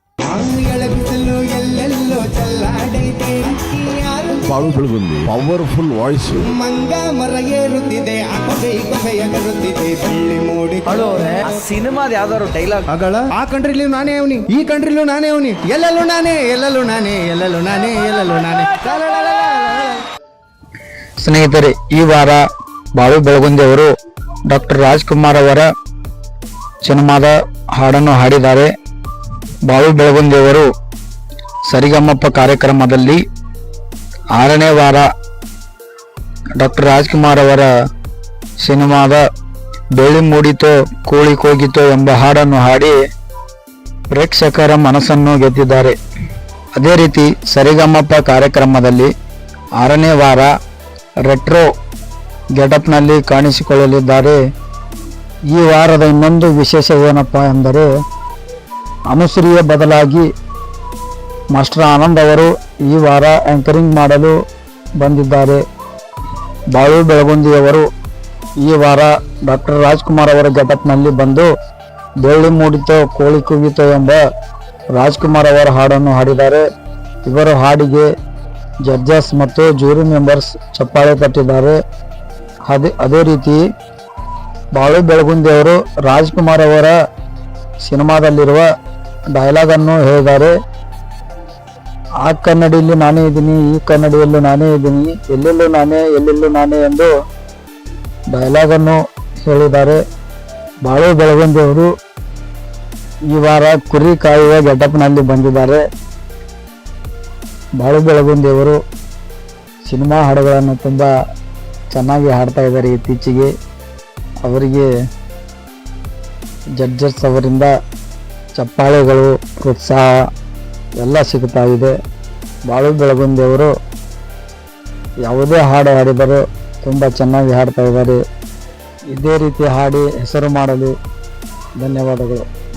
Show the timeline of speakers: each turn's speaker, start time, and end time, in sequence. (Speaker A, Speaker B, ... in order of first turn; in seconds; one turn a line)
Speaker A: 0.2-4.4
Speaker B: 4.5-6.5
Speaker A: 6.4-11.7
Speaker C: 10.9-12.8
Speaker A: 12.9-20.1
Speaker D: 21.2-22.4
Speaker D: 22.9-23.9
Speaker D: 24.5-25.7
Speaker D: 26.8-28.7
Speaker D: 29.6-30.7
Speaker D: 31.7-33.2
Speaker D: 34.4-35.1
Speaker D: 36.6-37.7
Speaker D: 38.6-39.2
Speaker D: 40.0-43.0
Speaker D: 44.1-46.0
Speaker D: 46.8-49.1
Speaker D: 49.8-50.5
Speaker D: 51.2-51.7
Speaker D: 52.5-54.4
Speaker D: 55.5-57.9
Speaker D: 59.1-60.3
Speaker D: 61.5-64.3
Speaker D: 65.0-65.6
Speaker D: 66.7-67.9
Speaker D: 68.6-71.5
Speaker D: 72.2-74.2
Speaker D: 75.0-76.6
Speaker D: 77.3-78.1
Speaker D: 78.8-81.8
Speaker D: 82.7-83.6
Speaker D: 84.7-86.9
Speaker D: 87.8-88.7
Speaker D: 89.3-90.5
Speaker D: 92.2-97.1
Speaker D: 98.3-100.0
Speaker D: 100.8-101.9
Speaker D: 103.3-105.8
Speaker D: 107.8-108.8
Speaker D: 109.8-111.1
Speaker D: 111.9-113.5
Speaker D: 114.4-114.9
Speaker D: 116.8-117.7
Speaker D: 118.5-120.1
Speaker D: 121.0-122.0
Speaker D: 122.7-123.7
Speaker D: 125.2-128.2
Speaker D: 129.1-130.9
Speaker D: 131.8-132.4